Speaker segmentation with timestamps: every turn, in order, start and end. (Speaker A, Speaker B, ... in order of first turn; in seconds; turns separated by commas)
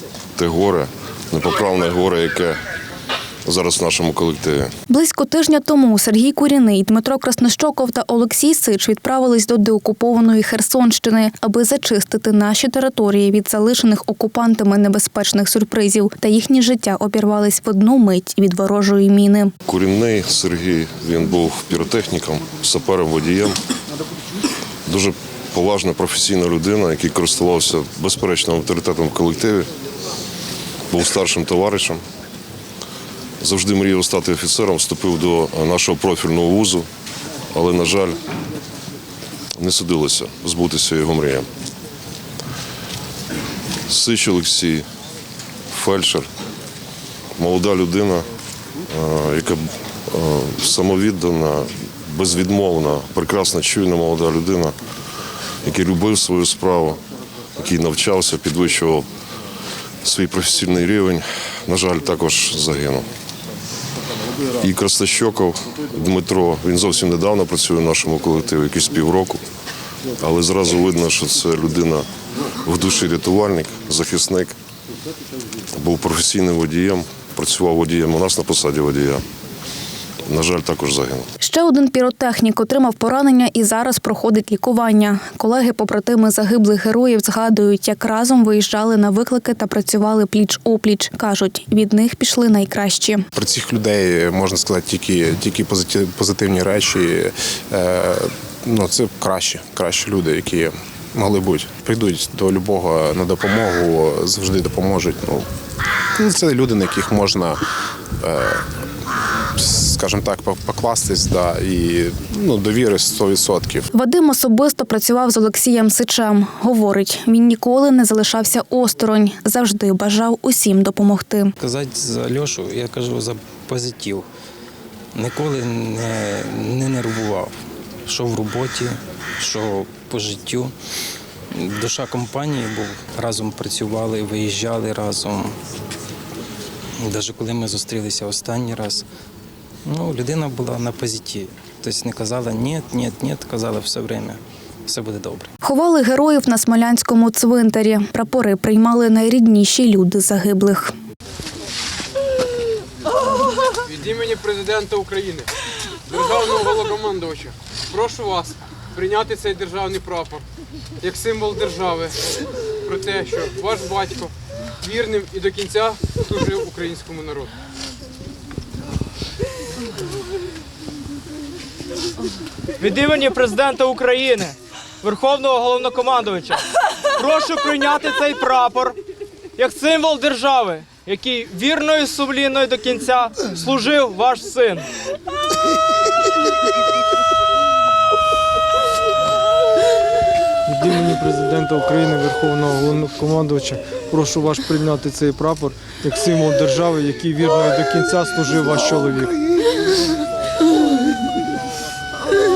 Speaker A: 0.3-2.6, Speaker A: 3.4-4.7, Speaker B: 4.9-19.5, Speaker A: 19.6-23.6, Speaker A: 24.9-29.7, Speaker A: 30.9-32.0, Speaker A: 33.4-36.9, Speaker A: 37.5-38.2, Speaker A: 39.6-41.5, Speaker A: 43.9-44.8, Speaker A: 45.7-46.3, Speaker A: 47.4-48.2, Speaker A: 48.9-54.7, Speaker A: 55.6-57.0, Speaker A: 57.6-59.0, Speaker A: 60.0-63.1, Speaker A: 64.6-69.4, Speaker A: 70.2-72.0, Speaker A: 72.6-74.5, Speaker A: 75.7-79.2, Speaker A: 80.2-81.3, Speaker B: 81.4-93.2, Speaker C: 93.3-105.5, Speaker C: 106.1-107.6, Speaker C: 108.2-108.7, Speaker C: 109.5-113.9, Speaker B: 113.9-121.5, Speaker D: 121.6-124.2, Speaker D: 125.1-127.5, Speaker D: 128.0-130.7, Speaker D: 131.5-135.6, Speaker D: 137.0-139.1, Speaker D: 139.8-145.5, Speaker B: 145.6-150.9, Speaker E: 153.8-155.5, Speaker E: 156.1-160.4, Speaker E: 161.0-162.2, Speaker E: 162.8-167.5, Speaker F: 172.8-179.0, Speaker F: 179.6-184.9, Speaker G: 190.7-199.3